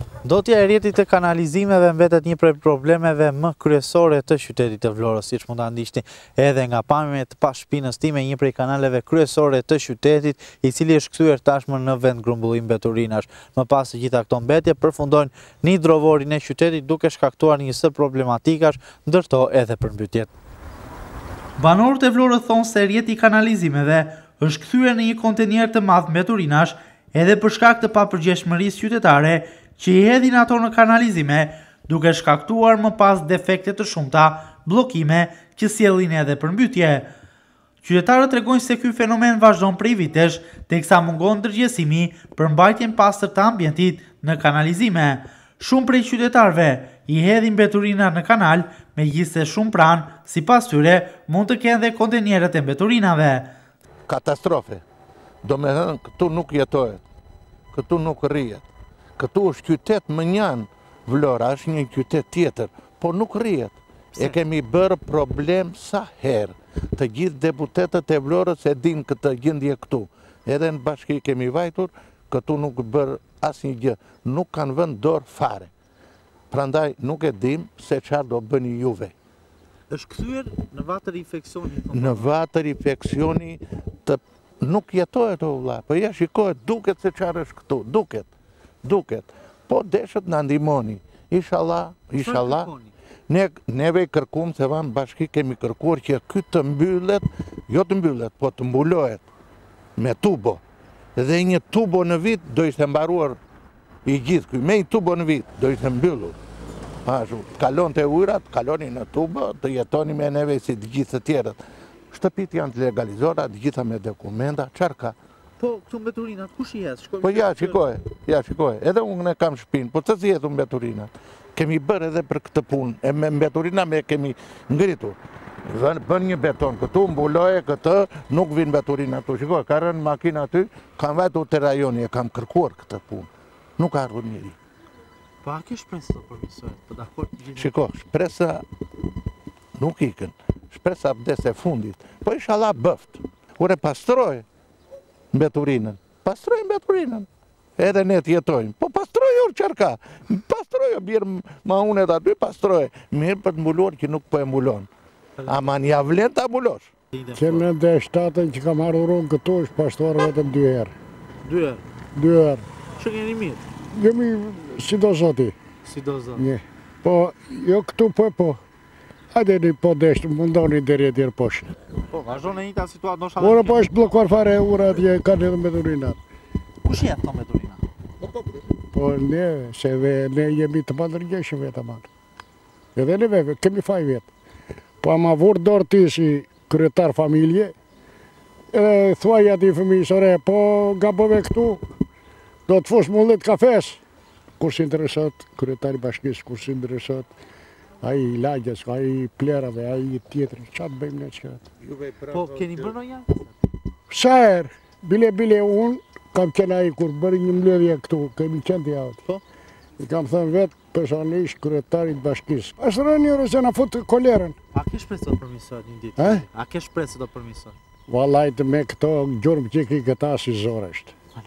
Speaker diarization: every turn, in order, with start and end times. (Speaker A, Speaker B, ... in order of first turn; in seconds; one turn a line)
Speaker A: 0.2-20.3
Speaker A: 21.6-37.1
Speaker A: 37.8-53.5
Speaker B: 54.1-54.8
Speaker B: 55.4-57.0
Speaker B: 57.7-58.7
Speaker B: 59.2-75.7
Speaker B: 76.5-79.1
Speaker A: 79.9-82.3
Speaker B: 81.9-88.3
Speaker B: 88.8-92.7
Speaker A: 92.2-92.9
Speaker B: 93.3-99.2
Speaker B: 100.0-100.6
Speaker B: 101.2-103.4
Speaker B: 104.1-106.4
Speaker B: 107.0-111.6
Speaker B: 112.1-115.2
Speaker A: 115.6-117.8
Speaker B: 117.2-134.6
Speaker A: 135.4-137.7
Speaker B: 137.5-138.7
Speaker B: 139.8-144.4
Speaker B: 145.3-154.9
Speaker A: 155.4-155.7
Speaker B: 155.5-156.9
Speaker A: 157.1-157.7
Speaker C: 157.3-160.9
Speaker A: 161.4-161.8
Speaker C: 162.2-162.7
Speaker A: 163.0-163.6
Speaker C: 163.9-165.6
Speaker A: 165.8-166.4
Speaker C: 166.3-168.6
Speaker C: 169.3-171.7
Speaker A: 172.1-173.9
Speaker C: 173.4-176.2
Speaker A: 176.8-177.8
Speaker C: 178.9-182.1
Speaker C: 183.0-184.3
Speaker C: 185.0-187.8
Speaker C: 188.7-191.8
Speaker C: 192.7-194.0
Speaker C: 194.6-197.3
Speaker C: 198.0-201.7
Speaker B: 201.8-203.0
Speaker A: 202.3-203.5
Speaker C: 204.1-209.2
Speaker C: 210.0-214.6
Speaker A: 214.7-217.8
Speaker C: 216.2-216.5
Speaker C: 218.1-221.1